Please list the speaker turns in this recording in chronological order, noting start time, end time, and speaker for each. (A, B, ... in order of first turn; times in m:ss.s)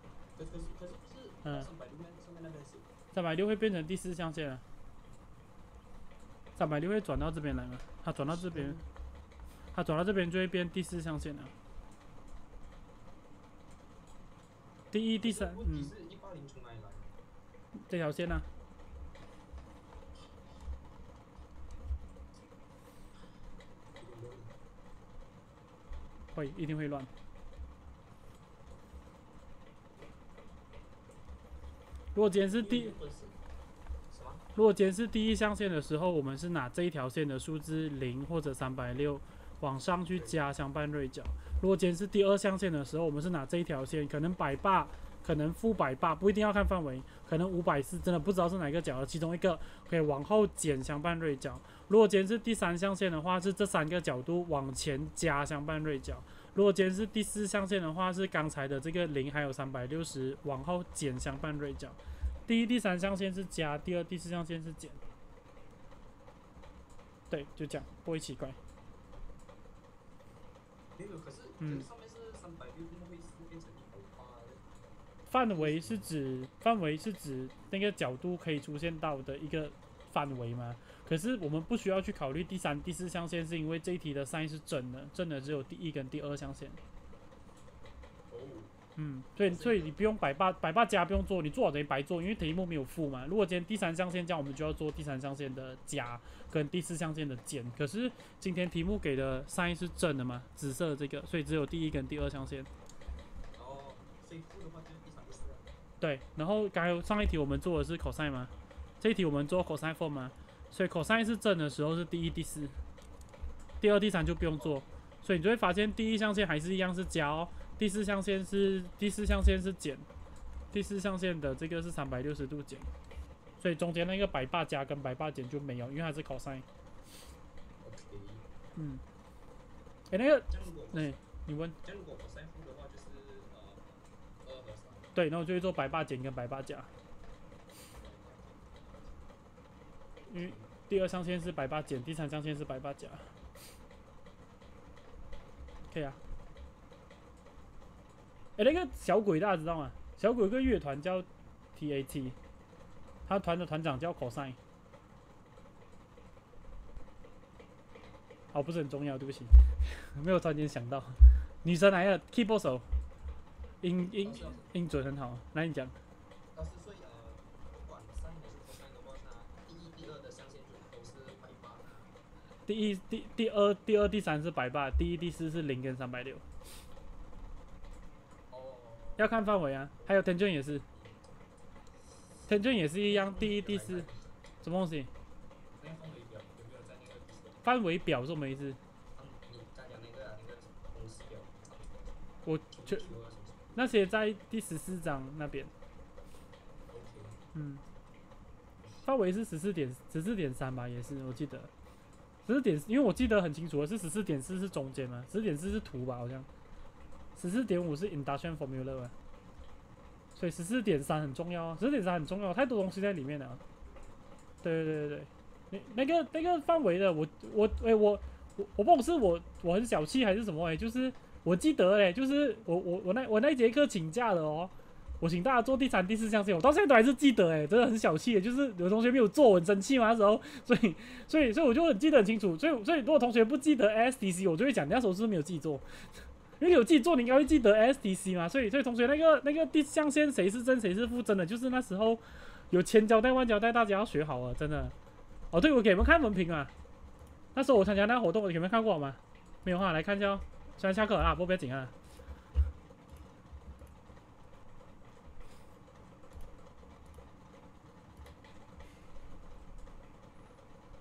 0:00.4-0:02.9 A
0:03.1-0:04.6 B
0:06.6-0:08.8 B
0:08.2-0:08.8 A
0:09.7-0:11.5 B
0:14.9-0:15.9 B
0:15.2-0:17.1 A
0:17.8-0:18.5 B
0:24.0-0:24.6 A
0:26.3-0:27.1 B
0:32.1-0:33.0 B
0:32.6-0:33.4 A
0:34.1-0:34.4 A
0:34.5-1:05.0 B
0:40.1-0:40.4 A
1:07.3-1:08.6 B
1:11.0-1:14.7 A
1:11.6-1:11.9 B
1:15.3-1:26.8 B
1:15.5-1:16.1 A
1:28.3-1:28.7 A
1:29.0-1:42.7 B
1:29.4-1:30.0 A
1:43.5-1:45.7 A
1:46.0-1:52.7 B
1:53.8-2:00.0 B
2:00.7-2:02.9 B
2:03.6-2:06.6 B
2:07.8-2:08.5 A
2:08.8-2:09.0 B
2:10.1-2:11.7 B
2:10.5-2:11.2 A
2:11.8-2:15.1 A
2:15.1-2:16.9 B
2:17.8-2:19.3 A
2:20.3-2:23.2 B
2:20.4-2:20.7 A
2:25.9-2:26.2 B
2:28.6-2:32.4 B
2:33.3-2:34.6 B
2:38.5-2:42.9 B
2:43.8-2:46.0 B
2:44.1-2:44.7 A
2:46.5-2:52.1 A
2:52.7-2:56.4 B
2:58.5-2:59.3 A
2:59.2-3:00.8 B
3:00.0-3:00.2 A
3:00.9-3:01.3 A
3:02.5-3:04.1 B
3:03.0-3:04.4 A
3:04.6-3:05.1 B
3:05.8-3:07.6 A
3:07.6-3:08.8 B
3:09.1-3:12.1 A
3:12.4-3:13.1 B
3:12.7-3:13.7 A
3:13.7-3:15.7 B
3:16.9-3:17.4 A
3:17.5-3:17.8 B
3:19.0-3:21.7 B
3:22.4-3:26.5 B
3:27.4-3:29.1 B
3:30.4-3:33.6 B
3:34.6-4:04.9 B
4:05.5-4:06.7 B
4:07.5-4:11.9 B